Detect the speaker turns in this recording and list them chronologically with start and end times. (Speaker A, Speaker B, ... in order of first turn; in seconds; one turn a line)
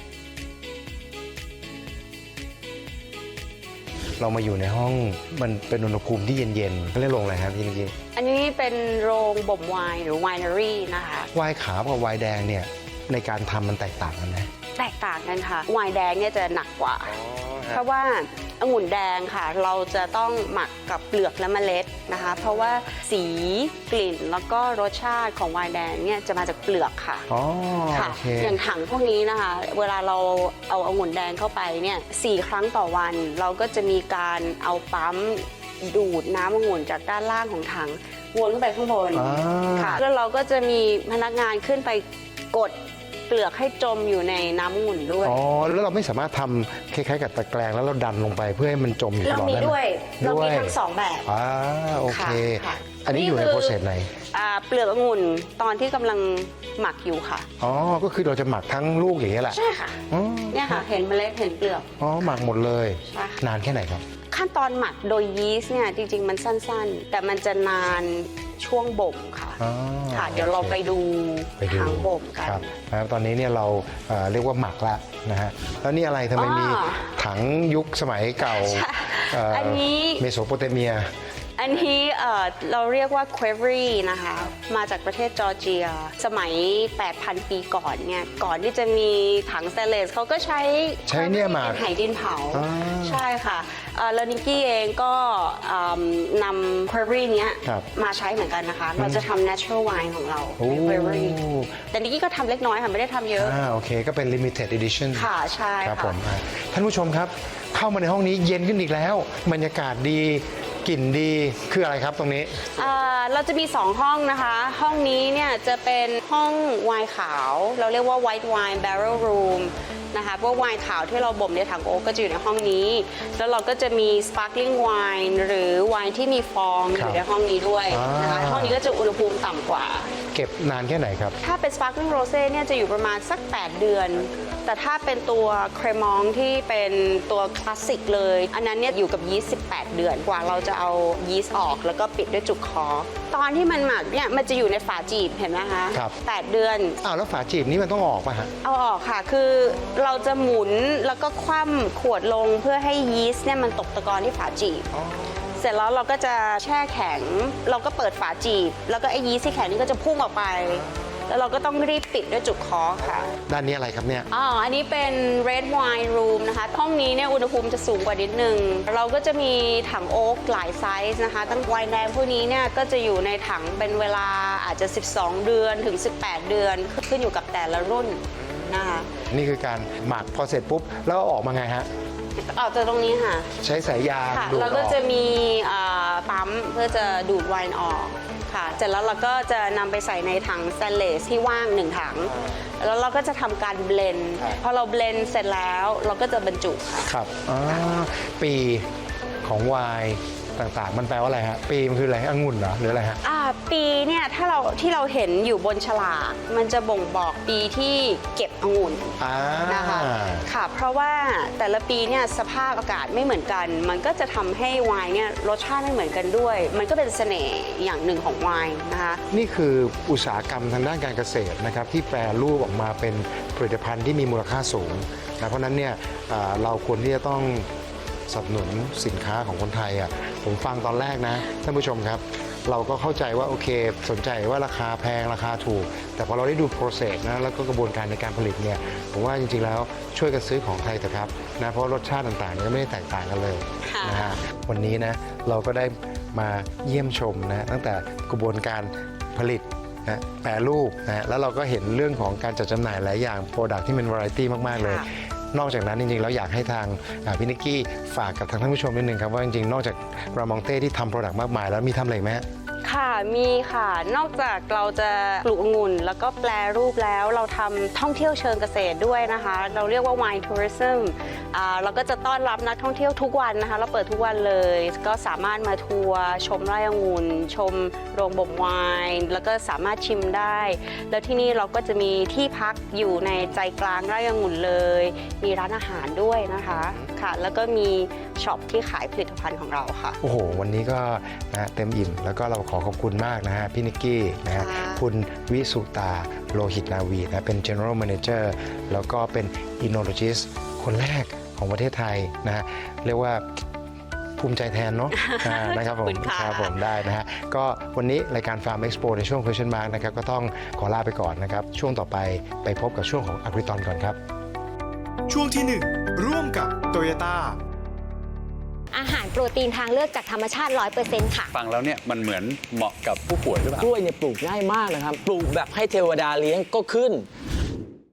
Speaker A: 4.2-7.9
Speaker B: 8.1-11.3
Speaker A: 11.3-14.5
Speaker B: 14.8-17.1
Speaker A: 17.0-17.8
Speaker B: 17.7-27.3
Speaker A: 27.3-28.6
Speaker B: 27.9-45.4
Speaker A: 39.1-40.0
Speaker A: 45.2-54.1
Speaker B: 49.2-51.2
Speaker B: 52.1-53.8
Speaker B: 54.3-57.5
Speaker A: 57.6-60.8
Speaker B: 59.5-60.0
Speaker B: 60.5-62.4
Speaker A: 62.0-64.0
Speaker B: 63.1-63.4
Speaker B: 64.3-69.6
Speaker A: 69.6-70.8
Speaker B: 70.1-72.6
Speaker A: 71.6-81.1
Speaker B: 76.3-77.1
Speaker B: 78.4-80.2
Speaker B: 81.6-101.4
Speaker A: 91.1-91.8
Speaker A: 92.5-93.2
Speaker A: 99.0-99.3
Speaker A: 100.6-101.8
Speaker B: 101.9-103.6
Speaker A: 103.4-105.3
Speaker B: 105.1-106.2
Speaker A: 105.8-112.8
Speaker B: 112.7-130.1
Speaker A: 126.9-127.2
Speaker A: 127.9-128.8
Speaker A: 130.3-131.4
Speaker B: 131.4-147.0
Speaker A: 147.0-148.5
Speaker B: 148.6-154.8
Speaker A: 154.9-155.4
Speaker B: 155.6-163.3
Speaker A: 163.3-164.3
Speaker B: 164.3-179.1
Speaker A: 178.4-181.9
Speaker B: 182.4-183.5
Speaker A: 183.6-185.0
Speaker B: 184.3-197.1
Speaker A: 192.3-192.6
Speaker A: 197.1-198.9
Speaker A: 199.4-203.2
Speaker B: 203.2-219.2
Speaker A: 209.2-210.4
Speaker A: 219.3-227.7
Speaker A: 228.3-262.4
Speaker B: 243.8-244.3
Speaker B: 254.7-255.1
Speaker B: 262.8-290.2
Speaker A: 286.8-287.1
Speaker A: 290.2-303.4
Speaker B: 294.5-295.0
Speaker A: 304.4-314.2
Speaker B: 305.2-306.7
Speaker C: 315.3-317.6
Speaker D: 318.9-321.5
Speaker E: 321.5-323.9
Speaker F: 323.8-327.3